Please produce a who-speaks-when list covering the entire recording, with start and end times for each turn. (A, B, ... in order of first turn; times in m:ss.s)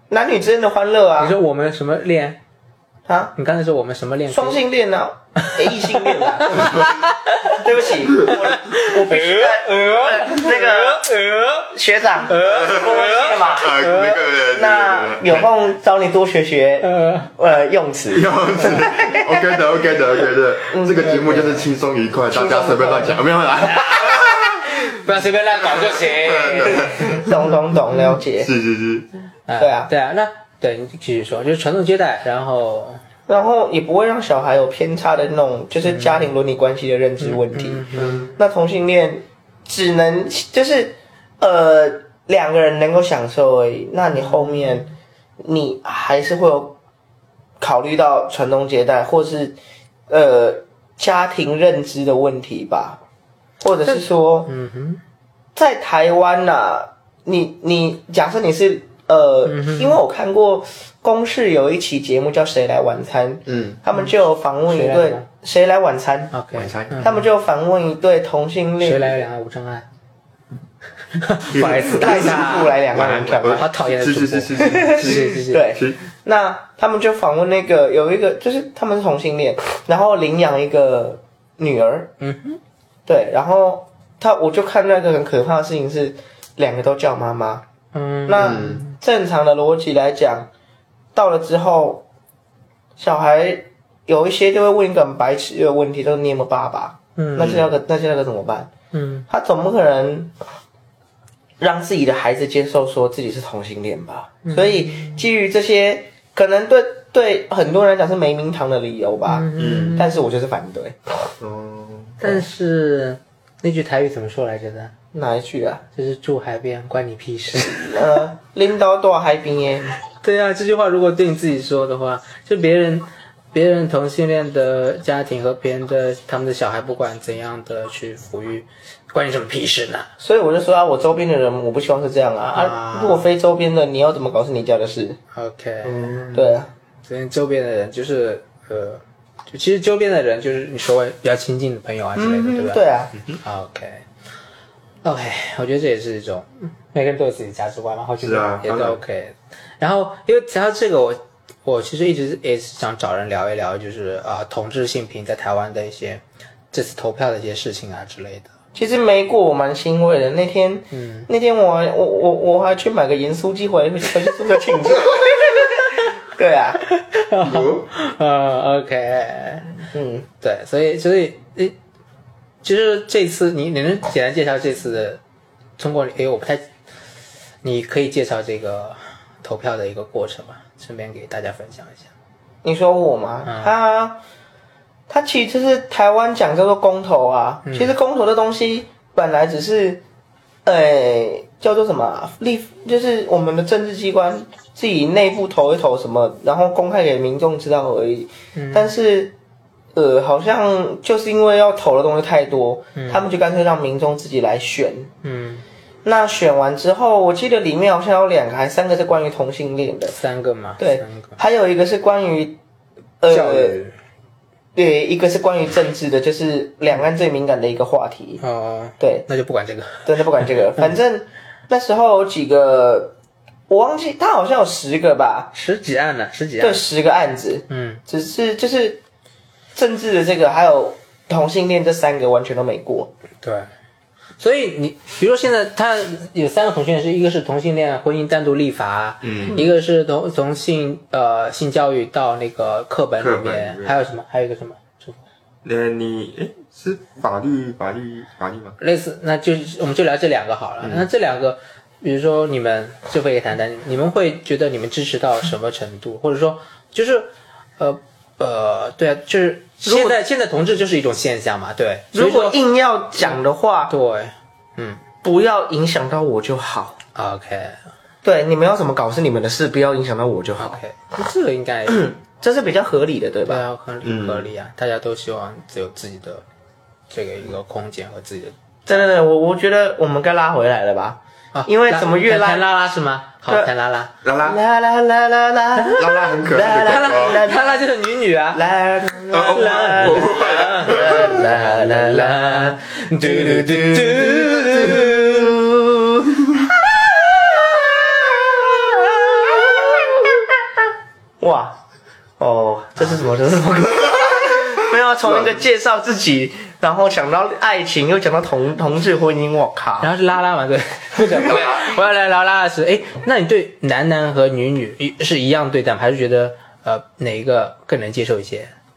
0:00.1-0:01.4 A
0:01.2-0:02.4 B
0:03.1-0:03.4 A
0:03.4-0:04.6 B
0:04.3-0:06.9 A
0:05.4-0:07.6 B
0:06.6-0:06.9 C
0:07.4-0:11.1 A
0:08.1-0:11.7 B
0:11.7-0:13.8 A
0:12.2-0:14.2 B
0:12.4-0:13.0 C
0:13.5-0:15.5 C
0:14.4-0:19.4 A
0:16.8-0:17.3 B
0:18.1-0:24.8 C
0:20.7-0:21.3 A
0:21.2-0:21.6 B
0:22.3-0:23.2 A
0:23.8-0:27.3 B
0:25.7-0:27.3 C
0:27.1-0:28.5 A
0:28.4-0:29.1 C
0:29.5-0:33.0 B
0:29.6-0:29.9 A
0:33.3-0:46.8 A
0:35.8-0:36.3 B
0:37.2-0:38.4 B
0:47.6-0:49.6 A
0:50.1-0:53.0 A
0:53.6-0:54.5 A
0:53.8-0:55.0 B
0:55.6-1:06.3 A
0:59.5-1:00.0 B
1:03.5-1:03.8 C
1:04.7-1:05.2 B
1:06.3-1:07.2 B
1:06.6-1:07.2 C
1:07.0-1:09.3 A
1:08.8-1:09.9 B
1:11.2-1:15.6 B
1:11.5-1:16.0 C
1:11.6-1:13.7 A
1:14.6-1:22.1 A
1:22.2-1:22.6 B
1:23.1-1:27.6 A
1:27.9-1:28.9 B
1:28.3-1:30.5 A
1:28.4-1:28.8 C
1:31.2-1:32.0 A
1:33.0-1:38.7 A
1:37.2-1:37.6 B
1:37.4-1:37.6 C
1:38.9-1:39.2 B
1:39.3-1:40.3 A
1:41.6-1:51.0 A
1:44.5-1:45.2 B
1:49.3-1:50.2 B
1:49.6-1:50.0 C
1:51.4-1:52.3 C
1:52.2-1:54.9 B
1:55.1-1:55.8 A
1:56.0-1:58.2 B
1:57.6-2:00.0 A
2:00.2-2:10.1 B
2:10.2-2:15.2 A
2:12.6-2:13.3 B
2:15.3-2:16.1 B
2:15.8-2:16.6 C
2:16.3-2:16.7 A
2:17.0-2:22.8 B
2:22.2-2:23.1 A
2:23.3-2:24.0 B
2:25.0-2:38.5 B
2:28.2-2:29.0 C
2:38.8-2:46.8 A
2:40.9-2:41.3 B
2:47.2-2:49.8 B
2:47.4-2:47.9 C
2:49.9-2:50.3 A
2:50.4-2:51.8 B
2:52.6-2:55.2 B
2:55.8-2:56.7 B
2:57.6-3:02.1 B
3:02.6-3:04.2 A
3:03.5-3:03.7 B
3:05.1-3:10.0 A
3:07.7-3:07.9 B
3:10.6-3:19.4 A
3:18.6-3:18.9 B
3:20.0-3:25.1 A
3:23.0-3:23.2 B
3:25.2-3:25.6 B
3:26.0-3:30.2 A
3:30.1-3:31.4 B
3:30.8-3:32.6 A
3:33.2-3:33.8 A
3:33.3-3:34.0 B
3:34.8-3:38.4 A
3:38.4-3:40.9 B
3:39.0-3:39.3 A
3:40.0-3:43.2 A
3:43.7-3:45.5 A
3:45.5-3:46.8 B
3:46.6-3:49.0 A
3:47.7-3:48.0 B
3:49.8-3:53.1 A
3:53.4-3:53.7 B
3:54.4-4:05.2 B
3:59.2-3:59.6 C
4:03.2-4:03.9 C
4:05.6-4:08.8 C
4:08.8-4:22.6 B
4:19.8-4:20.2 A
4:22.1-4:23.9 A
4:23.2-4:25.0 B
4:25.2-4:27.0 A
4:27.2-4:27.8 B
4:28.2-4:30.8 A
4:30.6-4:32.1 B
4:31.9-4:33.6 A
4:33.5-4:36.4 B
4:34.0-4:34.5 C
4:37.1-4:38.6 B
4:38.9-4:42.7 A
4:41.5-4:44.1 B
4:44.2-4:44.6 C
4:44.4-4:47.7 A
4:45.8-4:55.5 B
4:46.0-4:47.4 C
4:48.6-4:56.7 A
4:49.3-4:51.5 C
4:57.3-5:00.5 A
5:01.4-5:01.8 A
5:02.4-5:10.1 A
5:10.0-5:18.7 B